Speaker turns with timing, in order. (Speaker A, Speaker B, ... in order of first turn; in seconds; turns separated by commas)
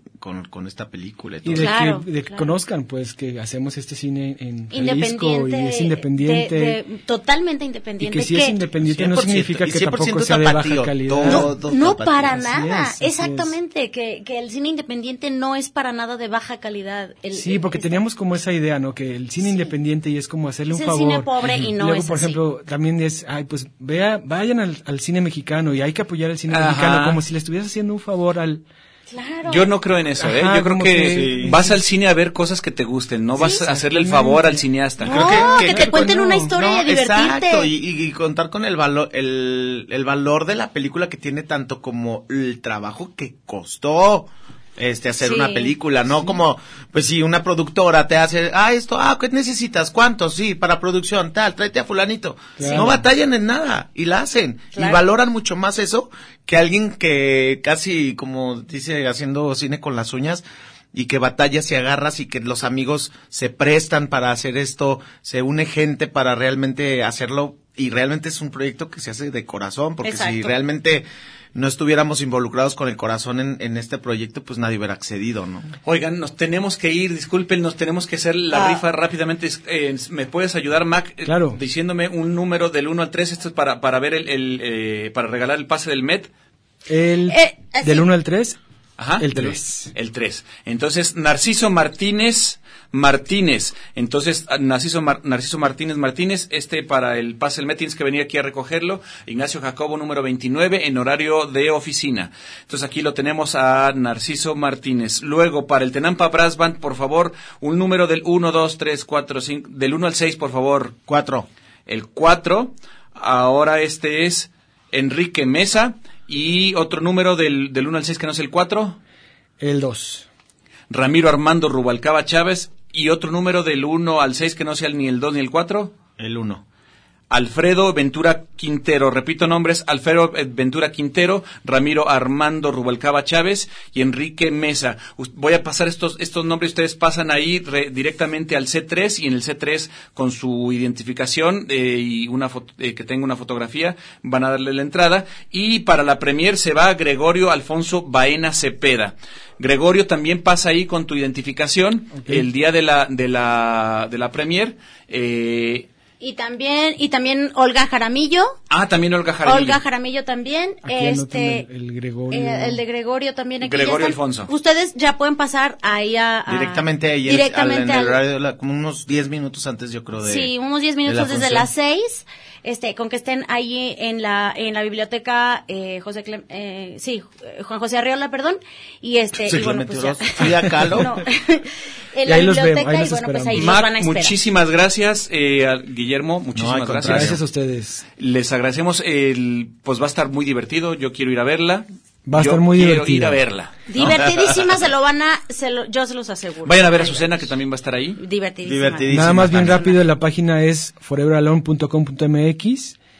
Speaker A: 0.2-1.7, Speaker B: 1.4-6.8, Speaker C: 1.6-2.5, Speaker C: 4.7-8.6, Speaker B: 8.0-11.6, Speaker A: 8.8-12.4, Speaker C: 11.2-18.0, Speaker B: 12.3-13.5, Speaker B: 17.3-28.6, Speaker C: 20.7-22.4, Speaker D: 26.5-27.2, Speaker C: 29.1-29.7, Speaker D: 29.5-35.3, Speaker B: 30.2-31.7, Speaker A: 31.1-31.5, Speaker B: 33.4-36.5, Speaker C: 35.0-37.7, Speaker A: 35.0-75.7, Speaker C: 45.2-45.7, Speaker B: 52.6-53.0, Speaker C: 52.6-52.9, Speaker C: 54.7-55.0, Speaker C: 70.0-70.5, Speaker D: 75.8-86.3, Speaker C: 78.5-78.8, Speaker B: 81.2-81.6, Speaker B: 86.9-88.6, Speaker C: 87.3-88.0, Speaker D: 89.0-111.0, Speaker B: 89.2-89.9, Speaker A: 111.1-111.5, Speaker D: 111.9-119.0, Speaker B: 119.6-120.3, Speaker D: 120.9-125.9, Speaker A: 126.2-126.6, Speaker D: 127.3-155.9, Speaker B: 152.1-152.5, Speaker C: 156.2-158.6, Speaker D: 158.7-159.8, Speaker C: 159.4-161.7, Speaker B: 160.8-162.8, Speaker C: 162.3-168.2, Speaker D: 163.6-164.5, Speaker A: 166.5-170.5, Speaker C: 170.2-184.3, Speaker A: 171.0-171.7, Speaker A: 179.4-181.1, Speaker B: 182.2-183.7, Speaker D: 183.5-187.4, Speaker A: 186.5-187.4, Speaker B: 187.0-188.0, Speaker D: 188.2-193.7, Speaker B: 192.2-193.4, Speaker C: 193.9-197.4, Speaker A: 194.0-194.2, Speaker D: 196.6-198.2, Speaker C: 198.2-200.0, Speaker A: 198.6-199.8, Speaker B: 199.1-203.0